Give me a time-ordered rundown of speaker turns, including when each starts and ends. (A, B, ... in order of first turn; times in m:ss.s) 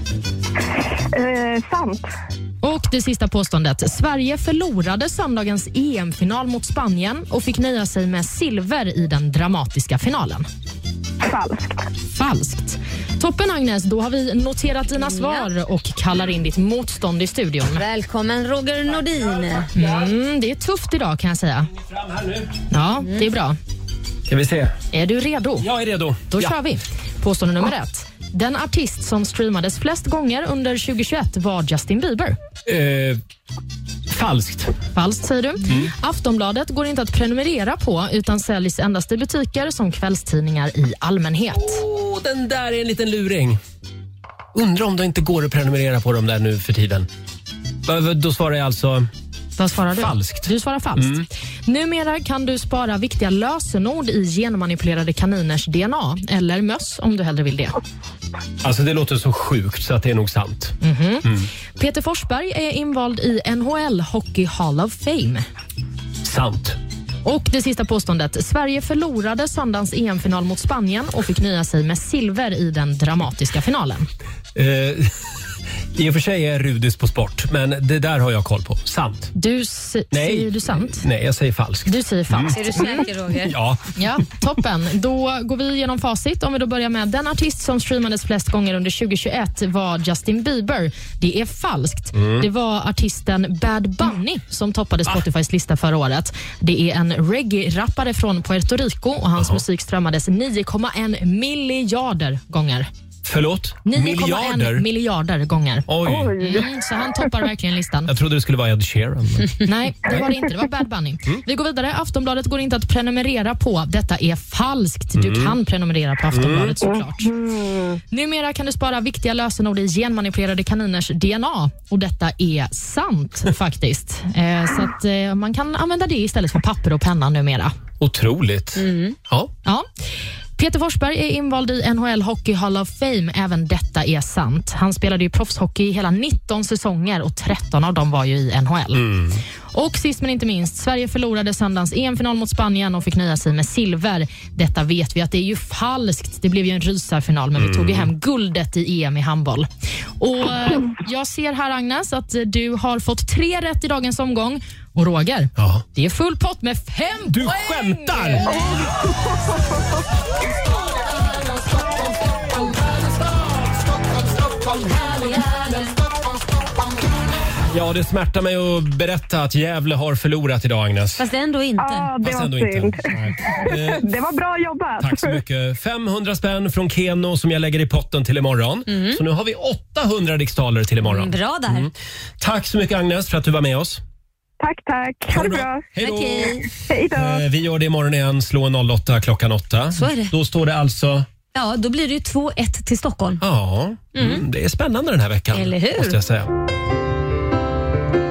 0:01.1-0:02.0 A
0:02.6-0:10.4 B
0:11.2-0:11.7 A
0:12.1-0:17.8 B
0:15.0-0:15.5 C
0:17.8-0:19.7 C
0:19.6-0:20.1 D
0:19.7-0:21.7 B
0:21.7-0:22.5 D
0:22.7-0:23.6 B
0:24.3-0:24.7 D
0:24.9-0:25.7 B
0:25.6-0:26.5 D
0:26.3-0:32.4 B
0:32.6-0:33.2 D
0:34.1-0:34.7 D
0:34.9-0:41.8 B
0:35.6-0:35.9 D
0:41.5-0:43.6 D
0:44.5-0:47.1 D
0:47.8-0:49.1 D
0:49.6-0:57.8 B
0:50.0-0:51.2 D
0:58.6-1:01.5 D
1:00.8-1:05.4 B
1:06.2-1:06.8 D
1:07.2-1:14.1 B
1:14.5-1:15.1 D
1:15.9-1:19.3 D
1:19.3-1:21.0 B
1:20.1-1:23.8 D
1:21.8-1:23.1 B
1:22.5-1:23.5 C
1:24.0-1:42.9 B
1:32.1-1:32.5 D
1:39.4-1:39.6 D
1:43.2-1:44.8 D
1:43.8-1:48.1 B
1:45.9-1:46.6 D
1:46.3-1:46.7 A
1:48.1-1:50.3 D
1:49.6-1:57.3 B
1:55.1-1:55.5 D
1:56.3-1:56.8 D
1:58.1-2:07.7 B
2:08.0-2:09.5 D
2:08.8-2:09.2 C
2:10.6-2:29.7 B
2:18.9-2:19.4 D
2:27.6-2:28.1 D
2:30.2-2:38.6 B
2:35.6-2:35.8 D
2:37.3-2:38.6 D
2:47.7-2:51.2 D
2:51.2-2:52.1 C
2:51.8-2:53.0 A
2:52.2-2:54.0 D
2:53.5-2:55.4 A
2:55.0-3:04.0 D
2:58.9-2:59.2 C
3:01.0-3:01.9 C
3:04.6-3:05.8 A
3:05.3-3:11.3 D
3:06.0-3:06.7 C
3:06.9-3:07.4 A
3:09.9-3:10.3 C
3:11.5-3:13.4 C
3:13.4-3:16.5 D
3:14.2-3:14.4 C
3:15.5-3:16.2 C